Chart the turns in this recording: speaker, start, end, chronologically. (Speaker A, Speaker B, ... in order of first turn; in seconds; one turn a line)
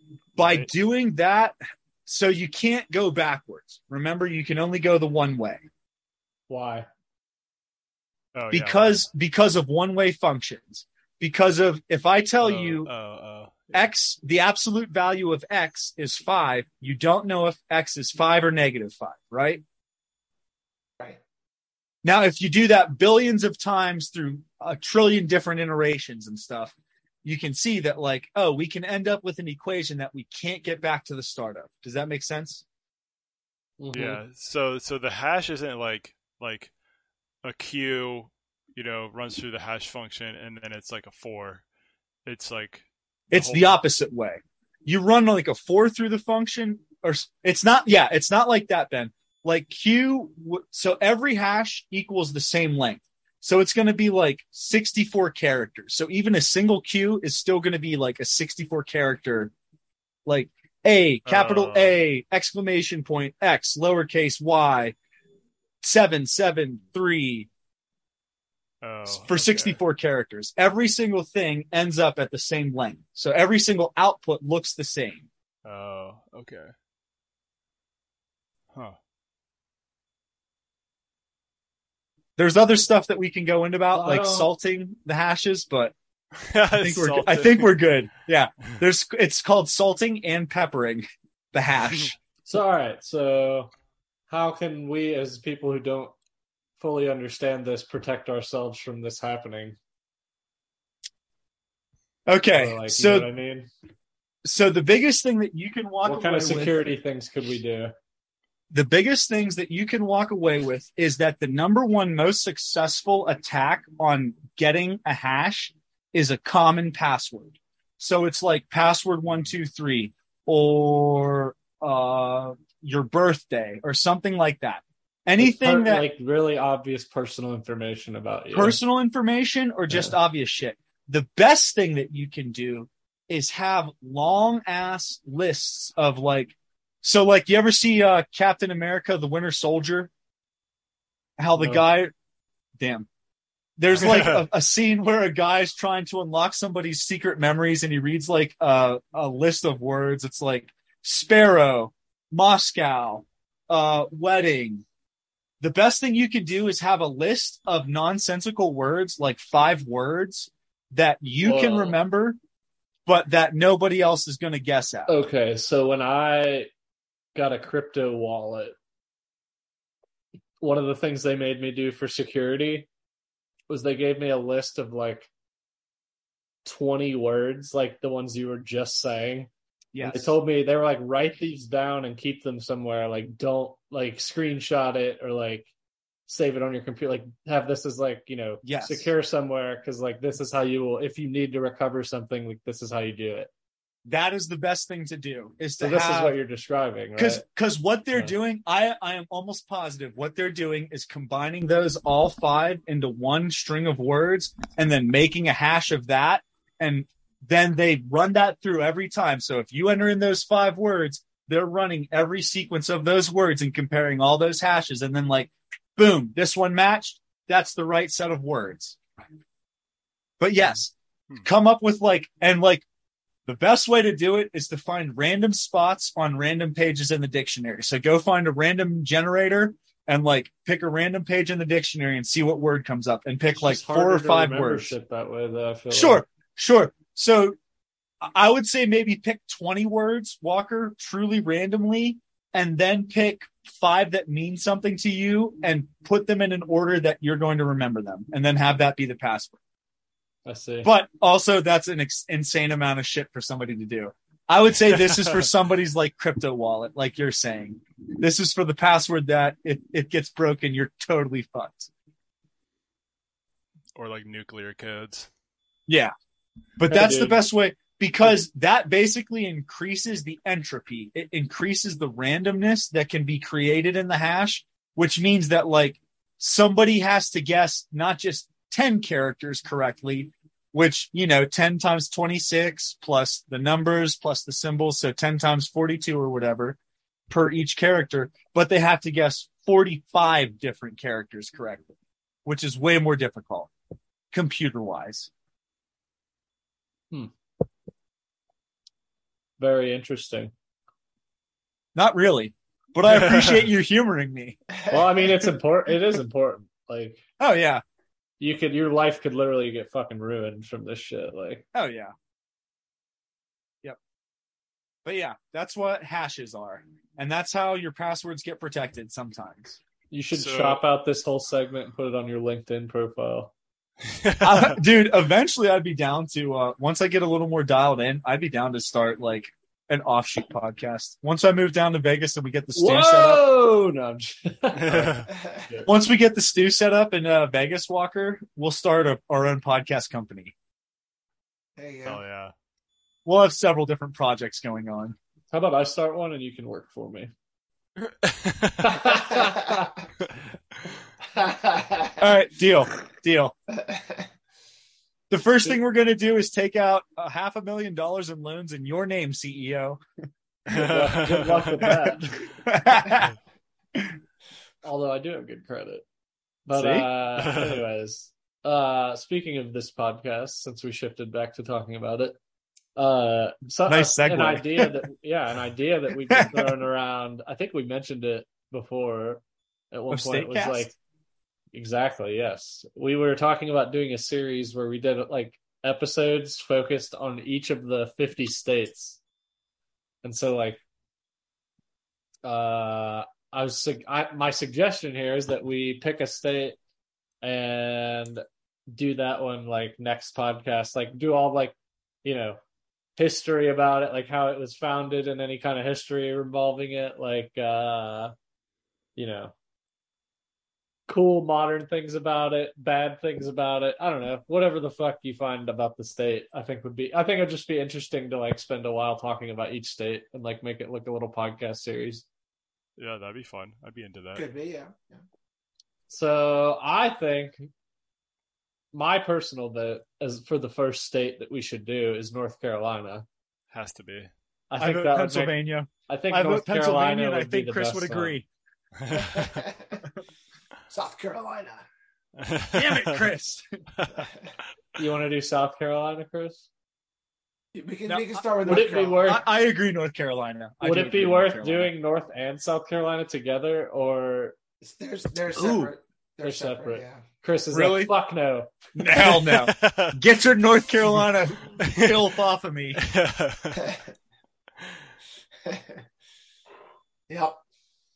Speaker A: 0.3-1.5
Speaker A: 2.0-5.6
Speaker B: 6.5-6.9
Speaker C: 8.3-9.0
Speaker A: 8.5-12.9
Speaker C: 12.4-13.8
Speaker A: 13.7-19.6
Speaker A: 22.0-32.6
Speaker B: 33.8-34.2
Speaker C: 33.9-36.7
Speaker C: 37.4-41.6
Speaker C: 42.2-43.8
Speaker A: 43.3-59.5
Speaker A: 60.2-65.0
Speaker C: 61.2-62.0
Speaker A: 65.8-67.5
Speaker C: 68.8-69.8
Speaker A: 69.1-75.3
Speaker C: 75.6-76.7
Speaker A: 82.4-85.9
Speaker B: 83.9-84.5
Speaker C: 86.4-87.7
Speaker A: 86.7-92.2
Speaker B: 92.5-93.7
Speaker B: 94.3-96.1
Speaker B: 96.8-99.8
Speaker A: 102.3-103.3
Speaker B: 102.5-103.7
Speaker A: 104.4-106.8
Speaker B: 106.0-107.9
Speaker A: 108.7-126.1
Speaker B: 125.4-128.8
Speaker A: 128.5-140.1
Speaker A: 141.4-142.1
Speaker B: 141.6-141.8
Speaker A: 142.8-143.1
Speaker A: 143.8-154.8
Speaker C: 144.0-144.4
Speaker A: 155.6-162.4
Speaker B: 161.4-162.0
Speaker A: 163.1-165.1
Speaker B: 165.1-166.7
Speaker B: 167.3-168.7
Speaker B: 170.6-172.9
Speaker B: 173.7-175.3
Speaker B: 176.6-179.5
Speaker A: 179.9-180.3
Speaker B: 180.0-185.7
Speaker B: 186.3-193.5
Speaker A: 188.6-189.1
Speaker A: 194.1-196.3
Speaker B: 195.8-197.4
Speaker A: 197.2-219.0
Speaker A: 220.4-222.8
Speaker A: 223.4-234.9
Speaker B: 233.6-236.2
Speaker A: 235.9-237.6
Speaker A: 238.2-249.6
Speaker B: 250.4-250.9
Speaker A: 250.8-261.9
Speaker C: 263.9-265.3
Speaker A: 265.9-266.1
Speaker A: 266.8-286.8
Speaker B: 266.9-267.4
Speaker A: 287.3-291.9
Speaker A: 292.4-293.7
Speaker A: 294.3-295.3
Speaker B: 299.6-300.5
Speaker A: 301.9-304.6
Speaker C: 303.1-303.6
Speaker B: 304.9-307.2
Speaker A: 307.4-307.8
Speaker B: 308.4-311.6
Speaker A: 311.7-312.1
Speaker A: 315.0-319.8
Speaker B: 320.1-323.5
Speaker C: 320.3-320.8
Speaker C: 324.1-324.8
Speaker A: 324.4-333.5
Speaker B: 332.7-335.9
Speaker C: 334.7-335.3
Speaker A: 335.8-340.5
Speaker D: 341.8-342.2
Speaker C: 342.0-342.5
Speaker A: 343.2-345.1
Speaker B: 345.5-347.3
Speaker C: 348.1-349.0
Speaker B: 348.8-349.9
Speaker D: 351.3-352.2
Speaker A: 352.2-353.5
Speaker D: 353.7-354.2
Speaker A: 355.3-360.0
Speaker B: 360.7-362.4
Speaker C: 360.7-361.6
Speaker A: 361.8-363.3
Speaker B: 364.8-366.0
Speaker B: 366.6-372.4
Speaker A: 366.7-367.1
Speaker C: 367.4-367.8
Speaker B: 372.9-380.9
Speaker A: 373.9-374.9
Speaker A: 376.3-376.7
Speaker A: 380.1-380.9
Speaker B: 381.7-389.2
Speaker B: 390.2-390.8
Speaker B: 392.4-396.8
Speaker B: 397.4-402.6
Speaker B: 403.2-408.3
Speaker B: 409.1-409.5
Speaker B: 411.1-422.2
Speaker C: 423.0-424.4
Speaker D: 424.3-425.2
Speaker B: 426.1-427.7
Speaker B: 428.9-433.2
Speaker C: 433.7-434.3
Speaker B: 434.7-438.4
Speaker A: 434.8-438.4
Speaker C: 439.0-439.5
Speaker D: 439.2-440.0
Speaker D: 440.9-441.8
Speaker C: 442.4-443.2
Speaker A: 442.7-443.6
Speaker C: 444.0-444.2
Speaker B: 444.9-446.7
Speaker D: 447.7-449.4
Speaker A: 448.1-451.9
Speaker B: 448.6-449.4
Speaker B: 450.8-454.6
Speaker D: 454.8-457.2
Speaker A: 455.5-455.9
Speaker B: 456.4-458.8
Speaker A: 457.7-458.1
Speaker A: 458.9-463.0
Speaker C: 459.3-460.2
Speaker C: 461.8-462.2
Speaker C: 463.0-463.8
Speaker D: 467.3-467.6